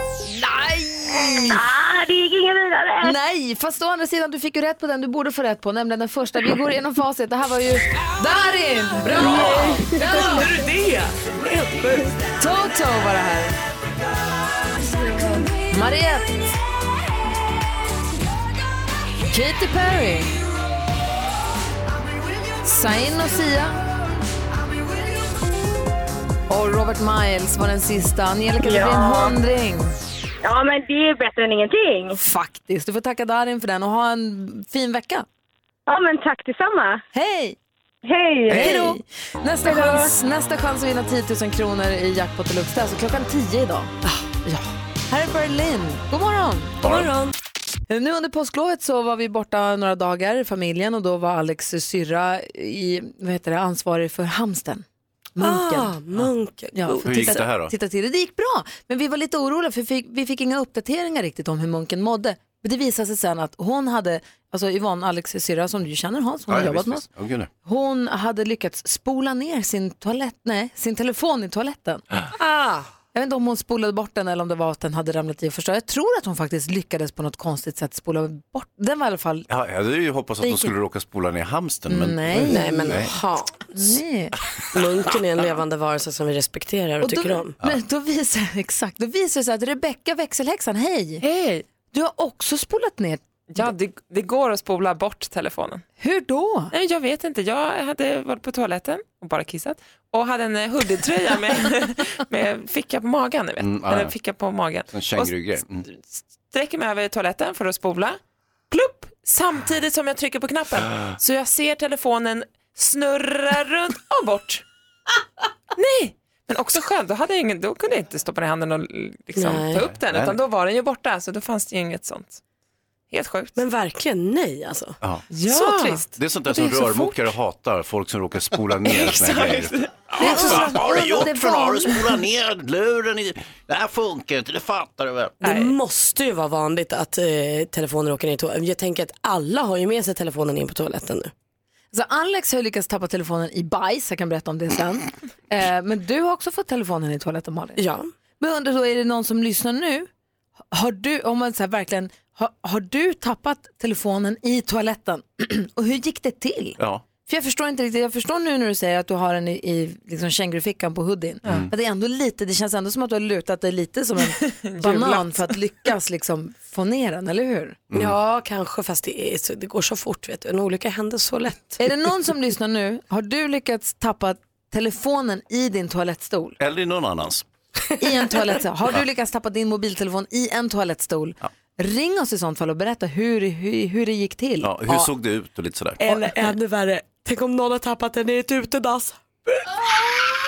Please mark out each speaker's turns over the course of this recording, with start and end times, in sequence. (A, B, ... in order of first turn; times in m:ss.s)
0:00.3-0:01.6 A
0:01.5-0:03.1 B
0:03.0-0:10.4 A
0:09.1-0:12.1 C
0:12.4-0:13.6 A
0:14.9-0:15.4 B
0:15.7-0:16.5 A
0:19.3-0:20.4 A
0:22.6-0:23.8 A
0:26.5-0:30.0 A
0:28.6-0:29.3 B
0:30.4-0:32.2 B
0:32.2-0:35.2 A
0:35.9-0:37.0 B
0:37.1-0:37.6 A
0:38.0-0:39.0 B
0:38.5-0:43.9 A
0:39.6-0:40.1 B
0:44.4-0:46.8 A
0:46.8-0:47.1 D
0:46.8-0:47.3 C
0:47.9-0:54.8 A
0:55.4-0:55.9 A
0:55.4-0:57.4 C
0:56.7-1:07.0 A
0:57.0-0:57.7 D
1:06.5-1:07.5 D
1:07.6-1:12.0 A
1:12.4-1:12.9 C
1:13.1-1:19.5 A
1:19.5-1:23.1 D
1:20.4-1:20.7 A
1:21.9-1:23.0 A
1:22.5-1:23.7 C
1:23.7-1:24.3 A
1:24.7-1:27.5 C
1:27.0-1:31.2 A
1:31.2-1:31.6 E
1:31.9-1:33.2 A
1:33.5-1:35.8 E
1:36.0-1:36.7 A
1:36.7-1:48.2 E
1:43.6-1:44.1 D
1:44.9-1:45.8 D
1:48.7-1:54.6 E
1:55.7-2:02.4 E
1:59.4-1:59.8 C
1:59.8-2:00.4 D
2:03.1-2:03.5 E
2:03.5-2:05.0 C
2:05.0-2:05.3 D
2:05.3-2:06.0 E
2:05.5-2:06.0 C
2:06.1-2:15.4 D
2:06.6-2:07.1 A
2:09.0-2:09.8 E
2:10.2-2:12.0 A
2:15.4-2:21.3 C
2:21.9-2:27.8 A
2:27.8-2:28.1 C
2:28.4-2:30.1 A
2:30.7-2:47.8 A
2:36.8-2:37.0 D
2:41.4-2:41.7 D
2:44.4-2:45.5 E
2:47.9-2:48.2 D
2:47.9-2:51.8 C
2:51.8-2:56.6 A
2:56.6-2:57.4 D
2:58.0-3:05.1 A
3:04.6-3:06.0 D
3:06.0-3:09.8 C